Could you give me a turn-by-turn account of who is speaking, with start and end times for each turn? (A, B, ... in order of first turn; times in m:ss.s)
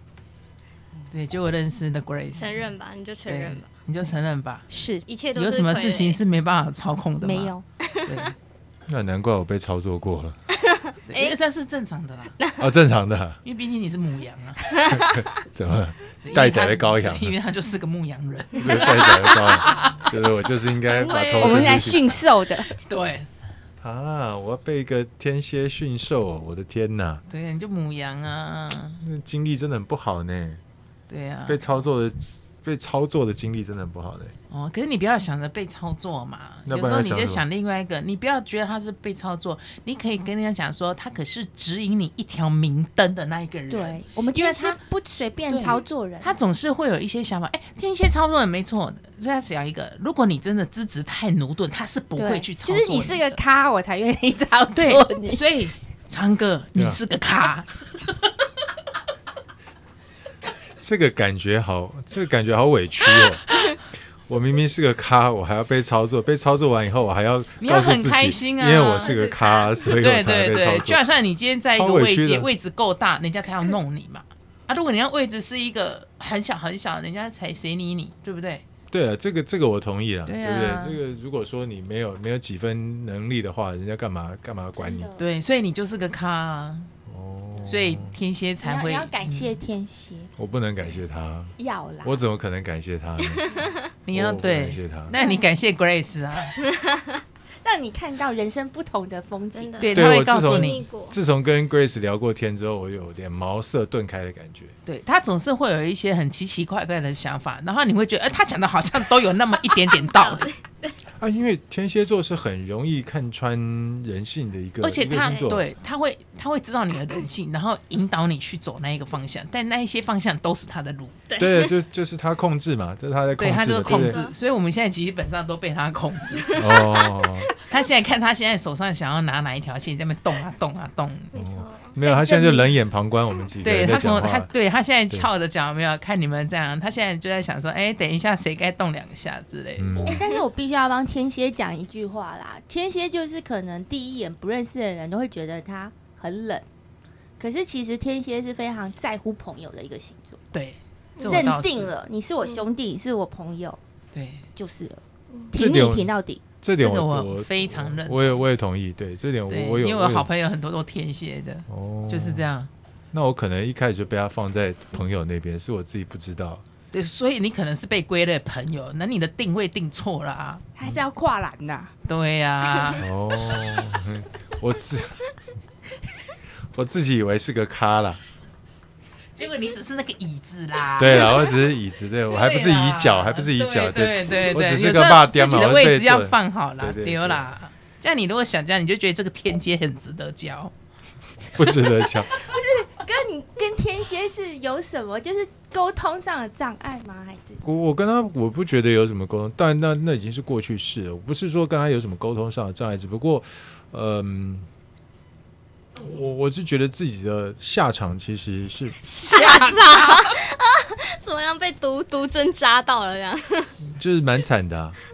0:01.1-0:02.7 A
0:02.4-0:03.7 B
0:03.3-0:04.7 A
0:04.7-0:05.0 C
0:05.0-0:06.2 B
0:05.4-0:07.5 A
0:07.2-0:07.6 C
0:07.8-0:08.2 B
0:08.0-0:08.3 A
0:08.9-0:10.4 D
0:10.5-0:11.4 B
0:11.1-0:12.4 A
0:12.6-0:13.4 D
0:13.4-0:14.6 A
0:14.6-0:15.3 B
0:14.9-0:17.3 D
0:16.2-0:20.1 A
0:18.6-0:22.1 D
0:20.9-0:21.8 B
0:21.4-0:22.7 C
0:22.7-0:23.3 A
0:23.8-0:27.2 D
0:27.3-0:29.0 A
0:29.0-0:30.6 D
0:31.1-0:31.8 A
0:31.5-0:34.3 D
0:34.5-0:44.8 A
0:36.6-0:37.4 D
0:43.7-0:46.4 C
0:45.5-0:53.4 A
0:52.2-0:55.4 C
0:54.7-0:57.8 A
1:00.8-1:03.6 D
1:04.3-1:11.0 D
1:07.6-1:09.2 A
1:08.8-1:09.7 B
1:09.8-1:18.6 A
1:11.7-1:12.5 D
1:18.9-1:25.1 D
1:20.2-1:21.0 A
1:24.8-1:25.2 C
1:25.2-1:26.9 A
1:27.1-1:28.1 D
1:27.6-1:29.6 A
1:28.6-1:30.3 C
1:30.4-1:35.1 D
1:31.6-1:32.2 C
1:33.4-1:33.7 B
1:34.0-1:36.6 A
1:35.2-1:35.4 C
1:36.6-1:37.2 B
1:37.6-1:40.0 C
1:39.5-1:41.2 B
1:39.8-1:40.8 A
1:39.9-1:44.7 D
1:44.8-1:50.5 A
1:50.1-1:50.9 B
1:51.2-1:55.6 D
1:54.8-2:01.2 A
1:55.2-1:55.5 B
2:01.3-2:01.7 B
2:01.4-2:04.2 D
2:03.4-2:06.8 A
2:03.9-2:04.3 B
2:06.4-2:07.1 B
2:06.5-2:07.5 D
2:07.6-2:11.3 A
2:11.3-2:11.9 B
2:11.3-2:14.5 D
2:12.0-2:12.7 C
2:13.6-2:20.1 A
2:19.8-2:20.2 D
2:20.0-2:26.6 C
2:27.4-2:30.4 C
2:30.5-2:31.9 A
2:31.2-2:31.4 B
2:31.2-2:33.8 C
2:34.1-2:34.4 A
2:34.6-2:36.4 C
2:35.5-2:40.3 D
2:36.8-2:38.4 A
2:39.5-2:42.7 A
2:41.7-2:42.5 D
2:43.1-2:46.6 D
2:46.9-2:50.6 A
2:50.8-2:51.9 C
2:52.0-2:53.0 A
2:53.0-2:55.2 D
2:56.7-2:58.2 D
2:59.4-3:01.5 A
3:01.0-3:07.4 D
3:02.3-3:10.7 A
3:11.5-3:12.3 D
3:12.2-3:17.6 C
3:17.6-3:24.7 D
3:26.0-3:29.0 D
3:29.1-3:30.2 C
3:29.3-3:33.7 B
3:29.3-3:29.8 A
3:33.9-3:35.0 D